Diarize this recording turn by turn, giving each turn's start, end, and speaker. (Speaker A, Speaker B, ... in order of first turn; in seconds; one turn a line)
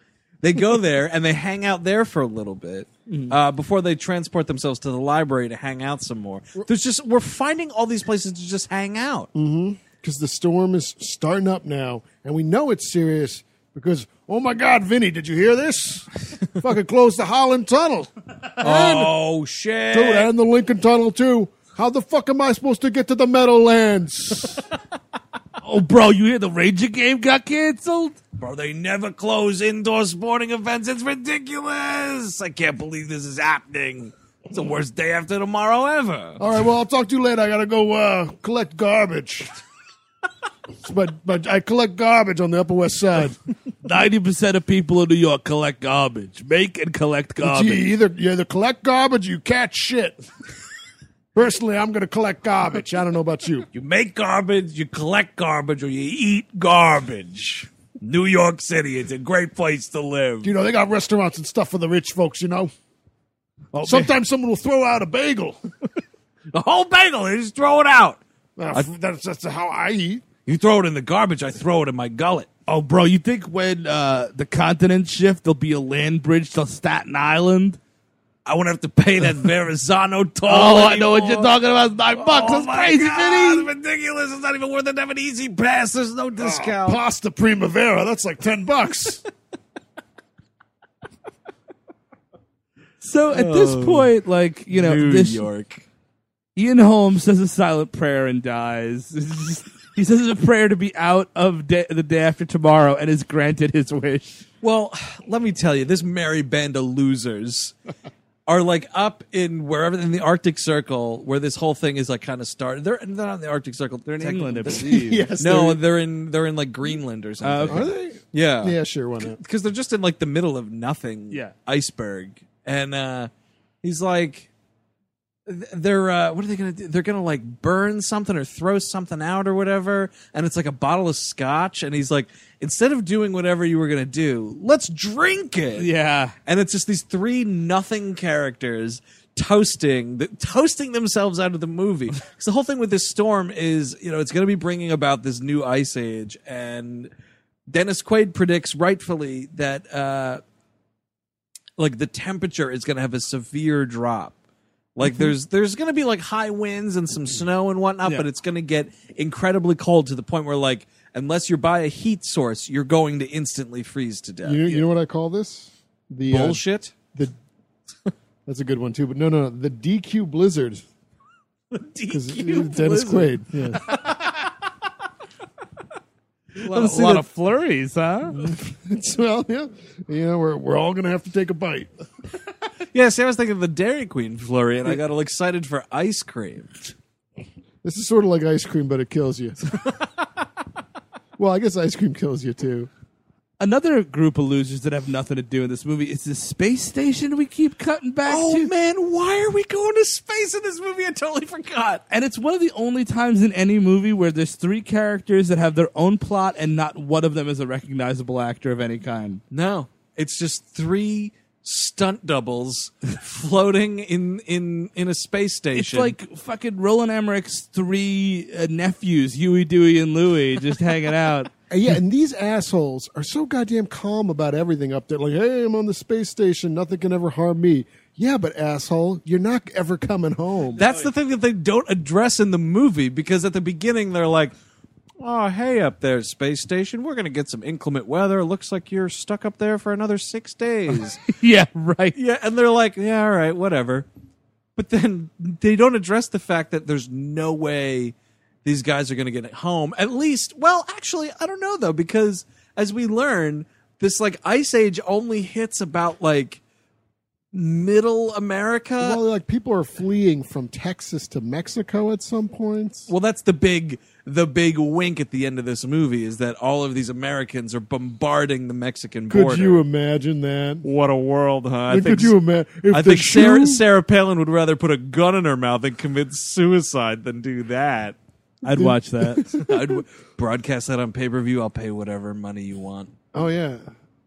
Speaker A: 0.4-9.3
Speaker B: 3.1-3.3
Speaker C: 9.3-19.1
Speaker A: 18.6-20.3
Speaker C: 19.9-24.6
Speaker B: 25.6-28.2
Speaker A: 28.4-36.4
Speaker C: 36.4-39.5
Speaker C: 40.8-43.4
Speaker B: 43.8-47.8
Speaker C: 47.4-50.2
Speaker C: 51.3-53.7
Speaker A: 53.7-60.5
Speaker C: 60.4-62.7
Speaker B: 63.7-64.1
Speaker C: 63.8-65.6
Speaker A: 66.5-68.2
Speaker C: 68.6-70.2
Speaker A: 70.5-72.5
Speaker B: 72.7-77.8
Speaker A: 78.5-81.5
Speaker B: 80.5-83.7
Speaker A: 82.1-87.0
Speaker C: 86.4-89.2
Speaker B: 93.0-95.4
Speaker A: 93.3-94.1
Speaker A: 94.7-95.8
Speaker B: 96.5-104.4
Speaker A: 104.6-107.7
Speaker A: 108.5-123.3
Speaker B: 114.1-115.3
Speaker C: 114.7-115.8
Speaker B: 117.4-117.9
Speaker C: 117.7-119.4
Speaker A: 123.8-124.5
Speaker A: 125.5-135.9
Speaker B: 135.8-136.3
Speaker A: 136.4-147.1
Speaker A: 147.7-150.4
Speaker A: 151.8-154.3
Speaker A: 154.9-164.6
Speaker C: 164.4-166.6
Speaker A: 166.3-166.9
Speaker C: 168.4-170.8
Speaker A: 171.7-174.5
Speaker C: 172.1-173.8
Speaker A: 176.6-177.2
Speaker B: 176.6-178.4
Speaker C: 178.3-181.9
Speaker A: 182.9-186.9
Speaker C: 187.8-189.6
Speaker C: 191.4-192.9
Speaker B: 193.6-198.7
Speaker A: 198.2-202.0
Speaker B: 202.1-209.4
Speaker A: 209.5-216.1
Speaker B: 215.7-221.5
Speaker C: 221.7-230.8
Speaker A: 230.8-234.5
Speaker B: 230.8-231.1
Speaker A: 235.2-241.2
Speaker B: 241.2-242.2
Speaker A: 242.1-244.1
Speaker A: 244.8-256.6
Speaker A: 257.5-259.2
Speaker C: 259.0-263.1
Speaker A: 263.1-269.8
Speaker C: 269.3-270.8
Speaker A: 270.8-272.3
Speaker C: 271.9-273.8
Speaker A: 272.9-278.2
Speaker B: 278.6-279.6
Speaker C: 278.7-279.8
Speaker A: 279.6-283.1
Speaker C: 283.3-283.9